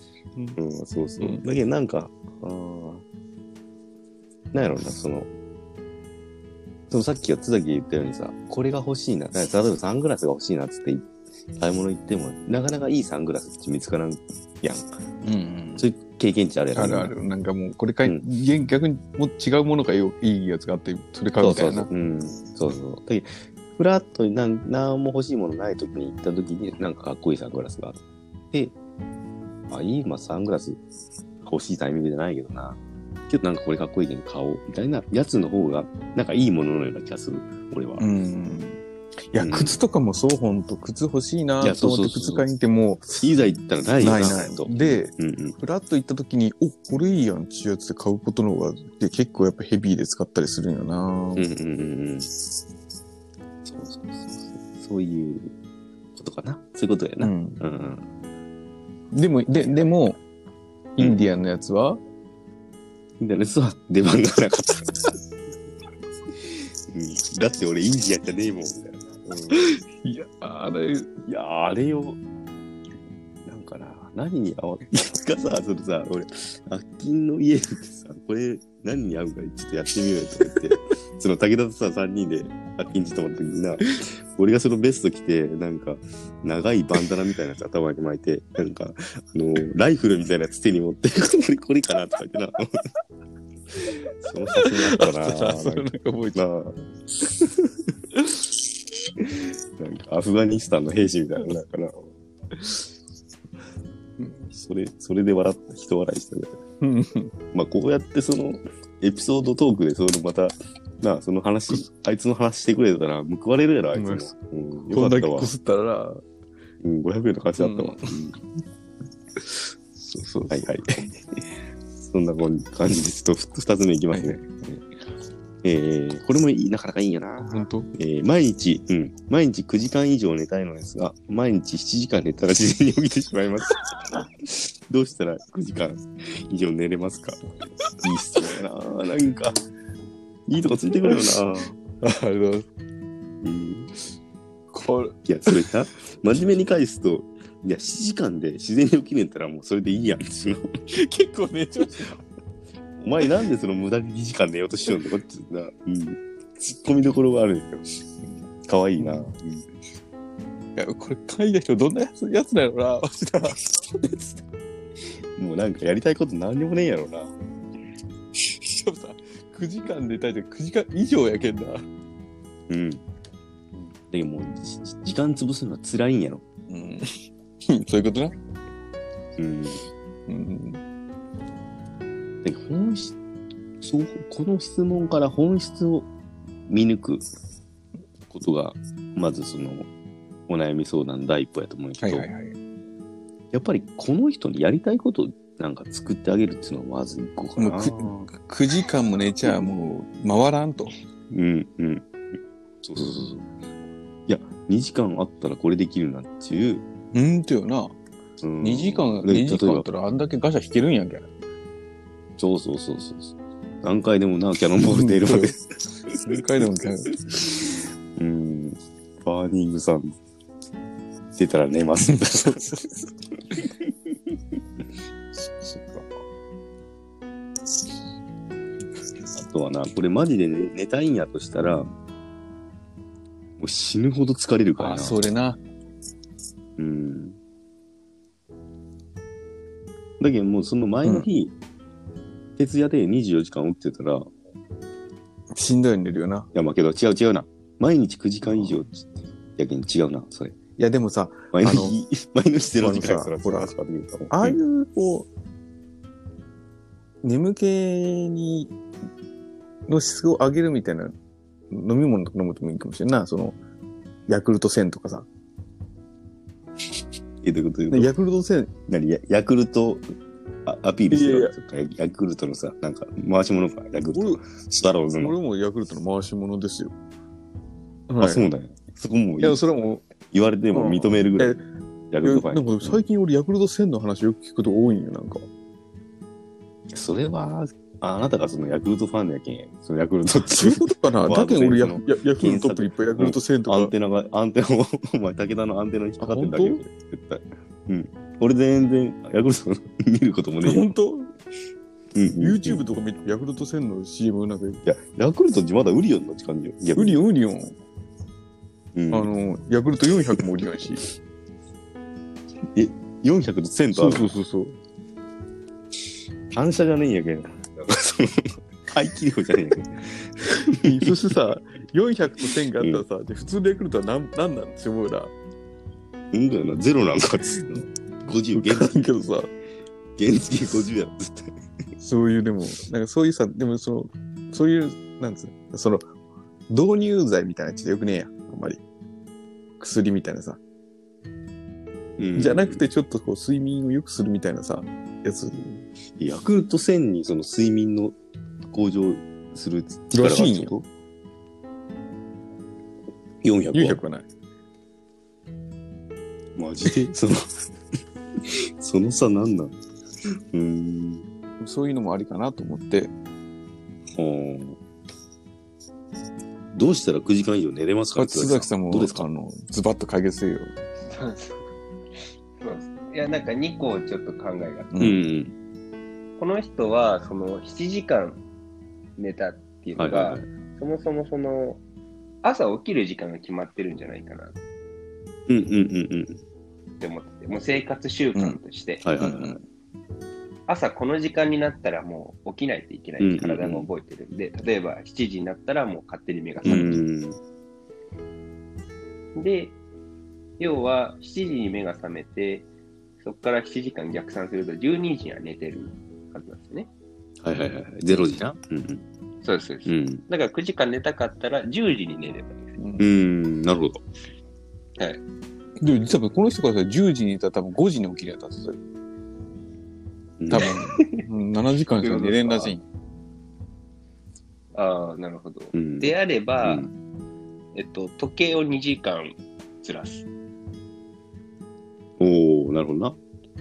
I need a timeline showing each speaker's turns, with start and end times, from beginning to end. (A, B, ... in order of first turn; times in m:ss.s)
0:00.6-0:03.0 A
0:04.5-0:05.3 A
0:06.9-0:14.9 A
0:15.2-0:15.9 B
0:15.8-0:17.1 A
0:16.7-0:21.9 B
0:21.4-0:28.7 A
0:29.7-0:30.8 A
0:31.4-0:38.0 A
0:38.0-0:38.8 B
0:39.3-0:43.2 B
0:39.4-0:39.8 A
0:41.6-0:42.4 A
0:43.2-0:45.6 A
0:44.0-0:51.4 B
0:51.3-0:52.3 A
0:53.6-0:55.5 A
0:56.1-0:58.0 A
0:57.2-0:57.6 B
0:59.1-1:00.2 B
0:59.5-0:59.9 A
1:01.0-1:02.0 B
1:03.2-1:05.2 A
1:06.3-1:09.6 A
1:09.5-1:11.1 B
1:11.2-1:12.2 A
1:13.4-1:32.7 A
1:34.2-1:36.8 A
1:34.5-1:36.4 B
1:38.1-1:38.5 B
1:39.8-1:42.1 A
1:42.6-1:42.8 B
1:44.2-1:44.5 B
1:44.5-1:46.5 A
1:46.8-1:47.3 B
1:47.5-1:55.5 A
1:53.9-1:54.3 B
1:54.9-1:56.2 B
1:56.8-1:58.4 A
1:57.6-1:58.2 B
2:00.0-2:01.1 B
2:00.5-2:01.2 A
2:02.0-2:04.8 A
2:04.1-2:04.4 B
2:05.6-2:13.8 A
2:07.4-2:07.9 B
2:14.4-2:17.4 A
2:18.0-2:19.6 A
2:20.5-2:21.7 A
2:22.0-2:22.7 B
2:23.4-2:23.9 A
2:24.7-2:25.7 B
2:25.2-2:30.7 A
2:30.9-2:32.2 B
2:33.0-2:37.9 A
2:38.6-2:39.6 A
2:39.0-2:39.3 B
2:40.8-2:43.6 B
2:43.9-2:44.4 A
2:45.1-2:47.3 A
2:48.4-2:51.8 B
2:52.7-2:53.0 A
2:54.1-2:56.4 A
2:56.7-2:57.2 B
2:57.7-2:58.3 B
2:59.4-2:59.8 A
3:00.3-3:00.8 B
3:02.4-3:03.2 A
3:03.8-3:06.1 A
3:06.7-3:07.2 A
3:08.3-3:09.9 A
3:10.5-3:12.3 A
3:12.0-3:12.6 B
3:13.5-3:18.2 A
3:17.6-3:20.9 B
3:21.3-3:22.1 A
3:22.8-3:23.4 A
3:24.3-3:26.8 A
3:27.1-3:27.9 B
3:28.4-3:29.9 A
3:28.6-3:31.3 B
3:32.4-3:40.2 A
3:34.8-3:35.5 B
3:36.1-3:37.1 B
3:41.3-3:42.8 A
3:42.1-3:42.8 B
3:45.3-3:46.1 B
3:49.3-3:51.9 A
3:53.6-3:55.2 A
3:54.8-3:55.6 B
3:56.8-3:57.4 A
4:00.2-4:01.5 A
4:02.6-4:04.3 A
4:05.5-4:06.5 B
4:06.5-4:10.6 A
4:08.4-4:08.8 B
4:10.8-4:12.0 B
4:11.5-4:14.6 A
4:12.8-4:13.7 B
4:14.3-4:15.3 B
4:17.2-4:18.7 B
4:19.9-4:21.1 B
4:21.7-4:23.6 B
4:24.3-4:25.3 B
4:27.4-4:28.1 A
4:27.9-4:28.7 B
4:28.9-4:30.0 A
4:30.6-4:35.4 A
4:31.1-4:31.5 B
4:34.1-4:34.4 B
4:35.2-4:36.9 B
4:38.1-4:38.5 B
4:38.2-4:39.6 A
4:39.4-4:40.0 B
4:40.3-4:41.6 A
4:40.7-4:41.6 B
4:42.1-4:43.0 A
4:42.2-4:45.4 B
4:46.9-5:00.9 A
4:50.4-4:53.9 B
4:56.2-4:56.8 B
5:00.6-5:01.3 B
5:02.1-5:02.8 A
5:02.4-5:04.8 B
5:04.8-5:07.2 A
5:06.9-5:07.7 B
5:08.9-5:09.3 A
5:09.1-5:11.0 B
5:12.7-5:14.3 A
5:13.9-5:14.8 B
5:16.5-5:21.1 A
5:20.6-5:25.3 B
5:22.8-5:23.0 A
5:26.3-5:29.1 A
5:28.5-5:29.5 B
5:30.2-5:31.5 A
5:32.0-5:36.1 B
5:36.7-5:38.8 B
5:39.8-5:40.6 B
5:42.2-5:42.8 A
5:42.3-5:45.8 B
5:46.2-5:48.2 A
5:48.7-5:50.8 A
5:50.1-5:50.8 B
5:53.4-5:54.0 A
5:53.7-5:54.2 B
5:56.6-5:57.7 A
5:58.4-5:59.8 A
6:00.3-6:01.2 A
6:01.6-6:03.1 B
6:04.1-6:04.8 A
6:06.7-6:09.2 A
6:08.2-6:10.7 B
6:11.1-6:11.6 C
6:12.6-6:14.9 C
6:14.9-6:15.2 B
6:15.0-6:15.5 A
6:16.4-6:18.4 C
6:19.2-6:21.8 C
6:20.0-6:20.5 A
6:22.4-6:24.6 C
6:25.5-6:26.4 A
6:27.0-6:29.4 C
6:29.0-6:29.6 A
6:30.7-6:37.0 C
6:33.2-6:33.9 A
6:36.6-6:37.4 A
6:39.3-6:39.8 C
6:40.6-6:42.7 C
6:43.2-6:46.9 C
6:47.4-6:49.0 A
6:49.4-6:52.8 C
6:49.8-6:50.2 A
6:52.8-6:53.1 B
6:53.0-6:54.0 A
6:55.8-6:58.8 B
7:00.4-7:00.7 A
7:00.5-7:02.8 B
7:00.6-7:01.2 C
7:02.0-7:02.8 C
7:04.7-7:06.9 C
7:05.7-7:06.9 A
7:07.7-7:10.2 C
7:12.2-7:13.2 A